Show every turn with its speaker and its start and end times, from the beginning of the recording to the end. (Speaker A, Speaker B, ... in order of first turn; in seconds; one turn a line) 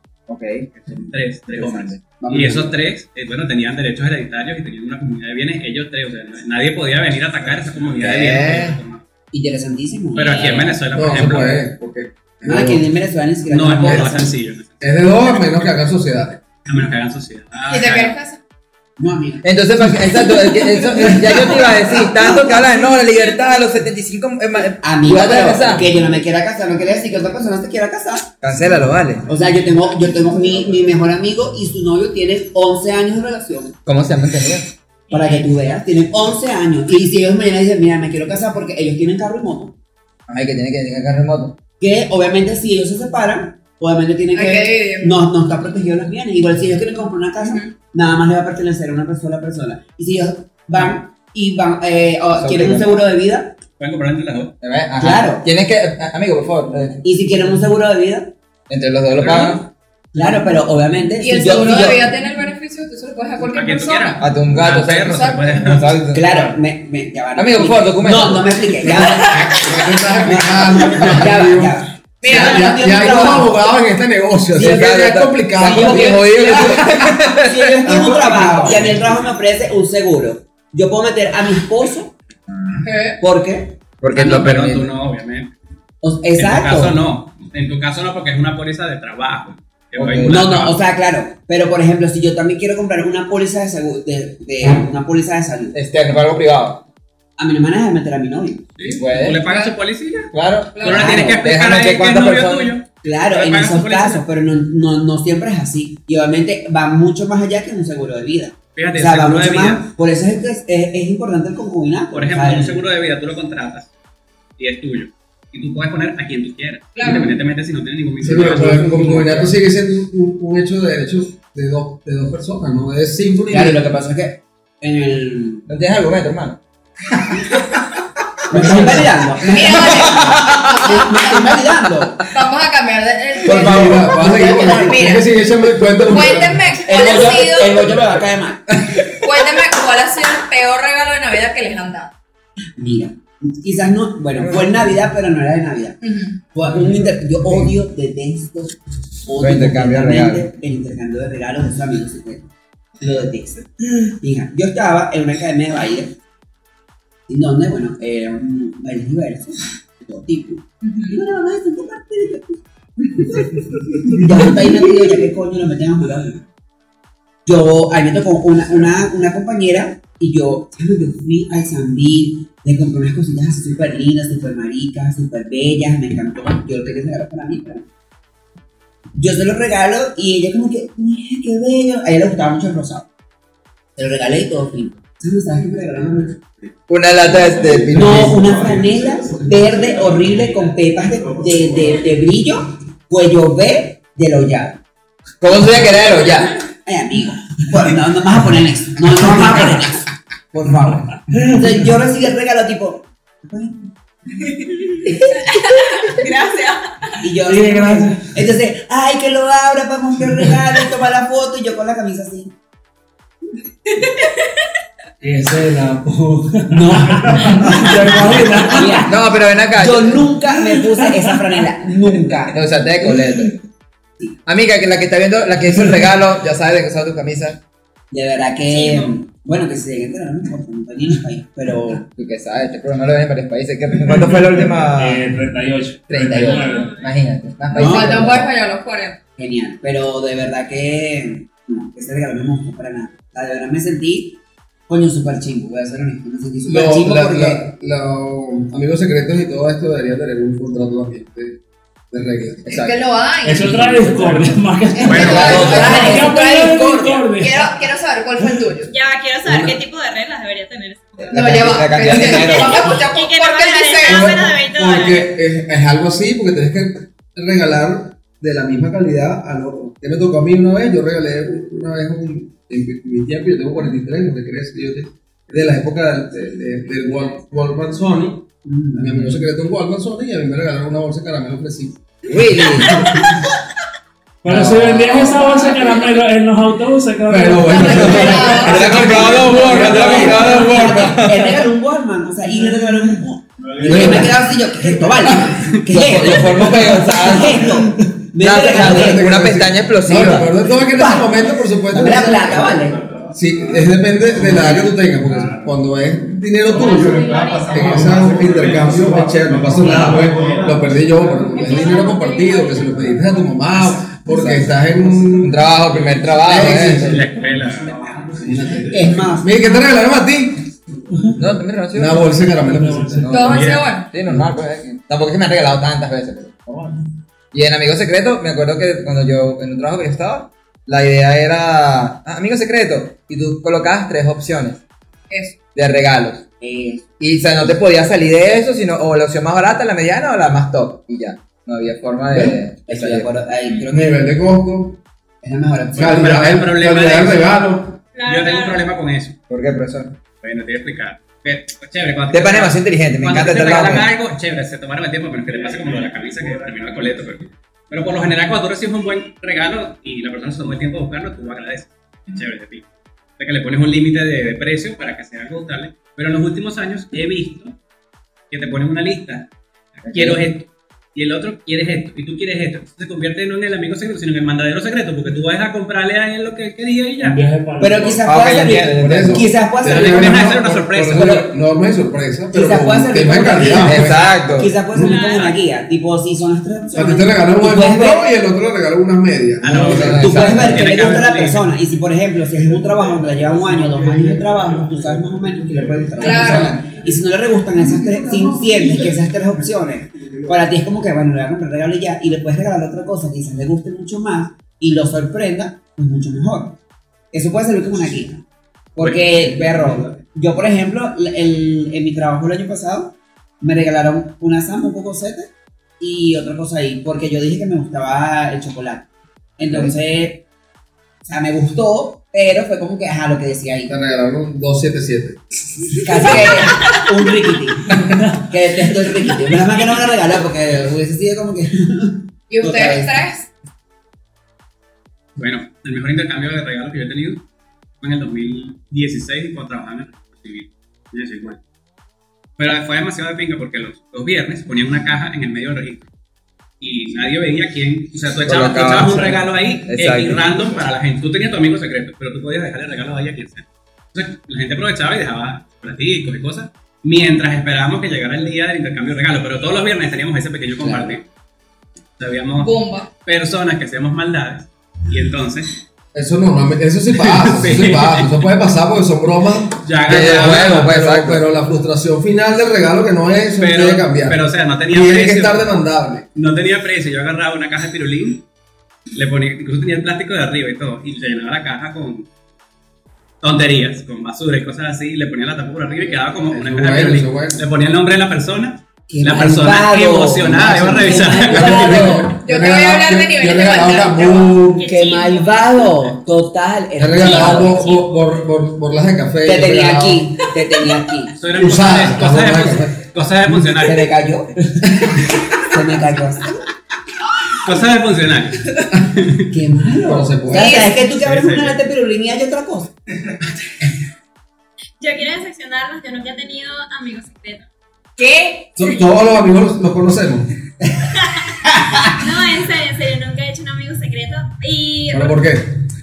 Speaker A: 0.3-0.7
Speaker B: 0.7-9.0
Speaker A: 1.5-1.9
Speaker C: 2.2-2.7
Speaker A: 8.0-8.8
Speaker C: 9.3-10.6
Speaker B: 10.1-11.6
Speaker D: 10.2-10.7
Speaker E: 10.9-12.8
Speaker C: 12.4-14.3
Speaker B: 13.5-15.1
Speaker E: 13.8-14.2
Speaker E: 14.8-16.4
Speaker B: 16.6-18.1
Speaker F: 17.7-18.4
Speaker C: 19.0-22.7
Speaker A: 19.4-25.9
Speaker C: 24.8-28.3
Speaker A: 28.4-29.2
Speaker C: 29.3-33.8
Speaker A: 33.9-34.7
Speaker C: 35.1-39.7
Speaker A: 40.3-41.5
Speaker C: 41.8-53.5
Speaker F: 44.3-45.1
Speaker A: 52.4-53.0
Speaker B: 53.8-54.5
Speaker A: 54.6-57.0
Speaker C: 55.0-55.5
Speaker C: 57.0-58.3
Speaker A: 58.7-59.6
Speaker B: 59.2-59.6
Speaker C: 60.1-62.1
Speaker F: 61.2-64.2
Speaker B: 63.5-66.0
Speaker A: 64.2-66.4
Speaker F: 65.1-65.4
Speaker C: 66.1-69.6
Speaker A: 67.3-68.6
Speaker E: 68.8-76.5
Speaker F: 69.2-69.8
Speaker C: 70.2-73.6
Speaker F: 72.2-73.6
Speaker A: 74.5-78.0
Speaker C: 75.6-82.1
Speaker E: 77.8-79.0
Speaker F: 82.8-83.2
Speaker C: 83.2-83.8
Speaker A: 84.0-84.9
Speaker B: 84.1-85.5
Speaker C: 86.0-87.0
Speaker B: 86.3-90.8
Speaker A: 90.0-90.4
Speaker C: 90.2-95.8
Speaker A: 95.7-96.8
Speaker C: 97.4-98.7
Speaker B: 98.8-104.2
Speaker A: 98.9-99.4
Speaker A: 100.3-102.7
Speaker F: 100.8-101.1
Speaker C: 100.9-101.4
Speaker C: 103.0-112.8
Speaker B: 108.7-109.9
Speaker B: 112.1-113.9
Speaker B: 114.6-119.5
Speaker F: 116.9-117.4
Speaker E: 118.2-123.8
Speaker C: 123.5-125.7
Speaker A: 125.7-126.6
Speaker C: 128.5-132.2
Speaker A: 128.5-129.1
Speaker E: 128.5-129.2
Speaker F: 129.4-131.4
Speaker A: 129.8-130.9
Speaker F: 132.3-135.3
Speaker E: 133.4-136.7
Speaker A: 133.4-134.1
Speaker C: 134.1-134.9
Speaker F: 135.8-137.9
Speaker C: 136.8-138.7
Speaker F: 139.1-142.1
Speaker C: 142.8-146.0
Speaker F: 146.0-146.3
Speaker C: 146.5-152.5
Speaker A: 149.4-150.4
Speaker C: 153.0-156.2
Speaker C: 157.3-166.4
Speaker F: 160.8-161.2
Speaker C: 167.4-177.8
Speaker C: 179.2-183.1
Speaker C: 183.9-186.4
Speaker A: 186.9-188.5
Speaker C: 187.9-194.8
Speaker A: 195.4-196.5
Speaker C: 196.8-203.9
Speaker C: 205.0-205.3
Speaker D: 205.5-206.8
Speaker C: 207.2-212.5
Speaker G: 207.4-208.3
Speaker G: 215.2-219.1
Speaker C: 216.7-222.6
Speaker A: 219.0-220.3
Speaker A: 222.5-223.6
Speaker A: 224.4-227.6
Speaker C: 228.1-232.1
Speaker D: 228.7-229.1
Speaker A: 232.2-235.2
Speaker G: 234.8-236.9
Speaker A: 236.1-238.5
Speaker D: 236.4-237.1
Speaker F: 237.7-239.2
Speaker C: 237.8-238.1
Speaker C: 239.4-247.7
Speaker E: 246.7-251.6
Speaker E: 252.1-252.7
Speaker A: 252.7-253.0
Speaker F: 252.7-254.3
Speaker G: 253.4-257.7
Speaker F: 254.9-258.9
Speaker C: 255.0-256.8
Speaker B: 255.1-255.3
Speaker A: 255.1-256.2
Speaker D: 258.8-261.4
Speaker F: 261.2-264.3
Speaker A: 261.3-262.9
Speaker D: 262.0-265.3
Speaker E: 264.1-282.2
Speaker C: 278.6-279.3
Speaker A: 282.3-283.1
Speaker G: 284.4-290.2
Speaker A: 284.4-285.4
Speaker E: 287.2-290.8
Speaker F: 287.6-290.0
Speaker A: 287.8-291.6
Speaker C: 289.0-299.3
Speaker E: 293.8-294.4
Speaker A: 295.9-297.8
Speaker A: 298.4-300.5
Speaker E: 298.7-302.8
Speaker C: 300.8-303.0
Speaker E: 303.3-315.5
Speaker F: 306.9-307.8
Speaker D: 311.5-312.9
Speaker A: 314.3-314.6
Speaker A: 315.4-317.2
Speaker E: 316.4-317.2
Speaker C: 316.5-317.1
Speaker B: 316.8-318.0
Speaker C: 318.4-319.5
Speaker E: 319.4-320.8
Speaker A: 321.4-322.4
Speaker E: 321.9-323.3
Speaker G: 322.5-323.5
Speaker A: 323.2-327.0
Speaker F: 323.3-324.1
Speaker B: 323.4-323.9
Speaker A: 327.5-334.8
Speaker F: 335.3-335.6
Speaker A: 335.7-336.4
Speaker C: 336.6-337.0
Speaker A: 337.2-343.3
Speaker C: 342.9-344.2
Speaker E: 343.9-345.0
Speaker C: 345.4-346.4
Speaker E: 345.9-348.0
Speaker B: 345.9-347.6
Speaker D: 348.1-348.9
Speaker B: 348.2-349.4
Speaker A: 349.5-350.1
Speaker B: 350.4-362.8
Speaker A: 352.3-354.1
Speaker B: 363.4-367.7
Speaker B: 368.5-369.4
Speaker B: 370.0-377.4
Speaker A: 370.1-370.4
Speaker G: 377.2-378.2
Speaker C: 377.8-380.5
Speaker A: 378.2-379.5
Speaker E: 379.0-384.2
Speaker B: 379.8-381.5
Speaker A: 381.1-381.4
Speaker C: 382.5-388.3
Speaker A: 383.8-384.7
Speaker D: 385.0-385.5
Speaker B: 385.2-385.5
Speaker E: 386.9-390.2
Speaker B: 389.6-391.7
Speaker A: 389.7-390.9
Speaker C: 389.9-406.8
Speaker F: 396.2-396.8
Speaker E: 397.8-399.2
Speaker C: 407.3-408.4
Speaker C: 408.9-419.1
Speaker B: 409.0-409.3
Speaker C: 419.6-420.4
Speaker C: 421.2-423.9
Speaker E: 423.9-425.4
Speaker C: 426.0-433.1
Speaker F: 432.5-433.5
Speaker B: 435.4-437.4
Speaker B: 438.0-441.6
Speaker B: 442.6-446.1
Speaker B: 446.8-461.2
Speaker A: 448.4-450.6
Speaker C: 460.8-461.1
Speaker B: 462.2-465.7
Speaker F: 462.6-463.1
Speaker E: 466.1-476.2
Speaker B: 467.2-468.4
Speaker B: 469.8-470.9
Speaker A: 470.1-471.4
Speaker B: 473.5-475.7
Speaker B: 476.3-478.4
Speaker B: 479.1-482.2
Speaker B: 483.4-492.1
Speaker E: 486.5-487.6
Speaker C: 489.1-492.3
Speaker E: 491.4-494.8
Speaker F: 491.5-494.5
Speaker D: 494.5-495.9
Speaker C: 494.7-497.9
Speaker E: 497.0-500.3
Speaker D: 497.2-498.4
Speaker C: 499.4-501.3
Speaker B: 501.4-504.1
Speaker E: 501.5-503.0
Speaker C: 503.8-506.7
Speaker B: 507.6-509.4
Speaker C: 509.5-512.9
Speaker E: 510.0-510.8
Speaker F: 510.5-510.9
Speaker B: 511.0-511.8
Speaker D: 515.0-517.7
Speaker F: 518.2-518.8
Speaker E: 518.8-520.5
Speaker D: 521.1-525.4
Speaker E: 525.1-525.8